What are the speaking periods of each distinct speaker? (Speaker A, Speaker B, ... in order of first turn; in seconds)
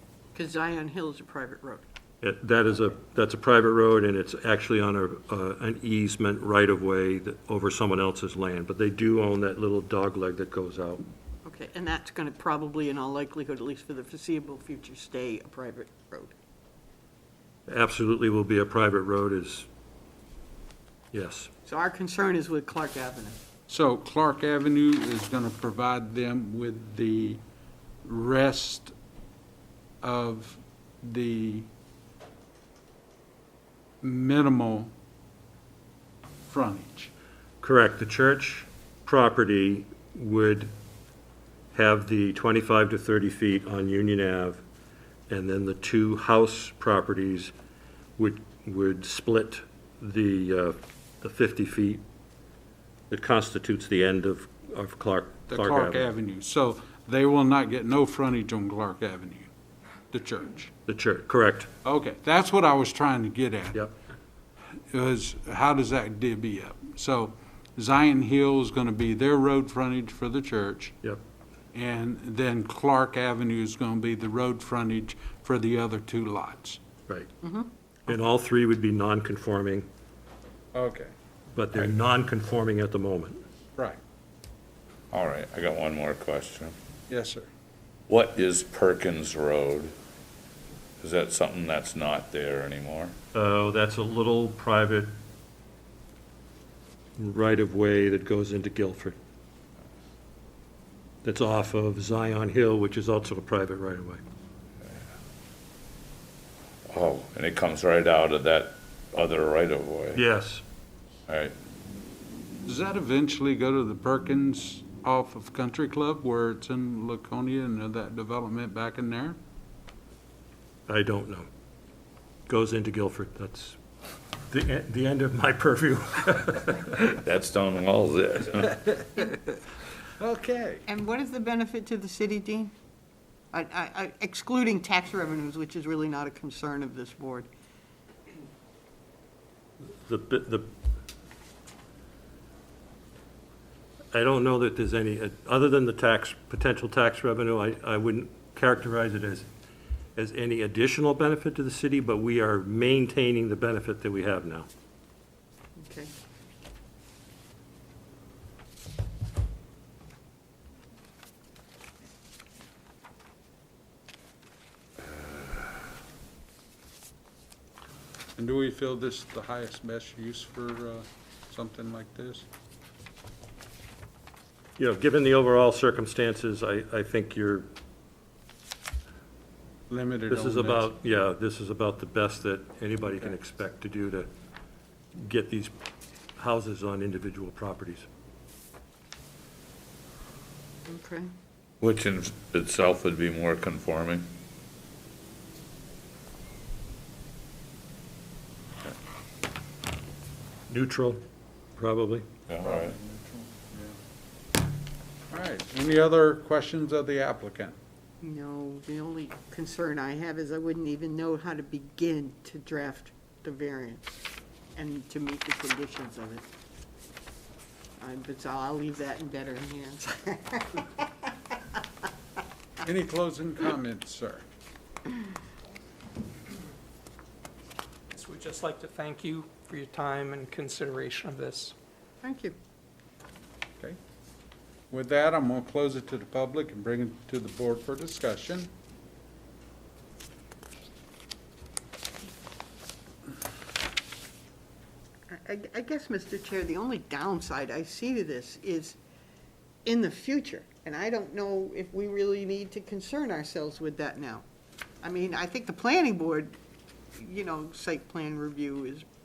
Speaker A: 0.3-1.8, 11.4-16.3, 21.6-23.4, 77.4-77.7, 130.9-132.7, 133.5-137.5, 155.8-156.1, 190.9-191.3, 208.2-214.1, 214.8-216.4, 218.0-221.8, 232.2-232.5, 245.3-249.0, 249.8-254.4, 255.0-256.5, 257.1-259.0
Speaker B: 2.2-11.0, 17.7-19.7, 21.1-21.5, 37.6-40.7, 41.7-44.6, 45.3-47.5, 48.2-52.0, 53.1-56.1, 60.9-61.7, 78.1-79.9, 81.5-83.4, 93.3-95.1, 97.2-99.2, 101.2-104.2, 110.1-110.6, 120.9-121.5, 122.5-123.8, 124.5-127.0, 140.0-140.7, 144.1-149.5, 150.2-154.7, 174.8-177.7, 180.3-184.3, 185.2-185.7, 186.4-188.1, 200.7-201.2, 201.8-202.2
Speaker C: 23.7-27.4, 28.0-28.9, 30.0-31.7, 34.0-34.9, 36.5-37.1, 55.5-59.5, 60.1-60.7, 61.8-63.9, 64.9-71.0, 71.7-76.8, 80.7-81.1, 87.1-87.5, 112.7-119.4, 130.2-130.8, 168.4-172.4, 179.9-180.9, 202.6-203.9, 205.3-207.8, 222.8-224.4, 234.9-238.7
Speaker D: 85.1-86.8, 88.1-89.9, 91.0-93.2, 106.9-110.2, 111.3-111.5, 127.0-129.1, 191.8-194.3, 202.5-203.0
Speaker E: 228.1-231.7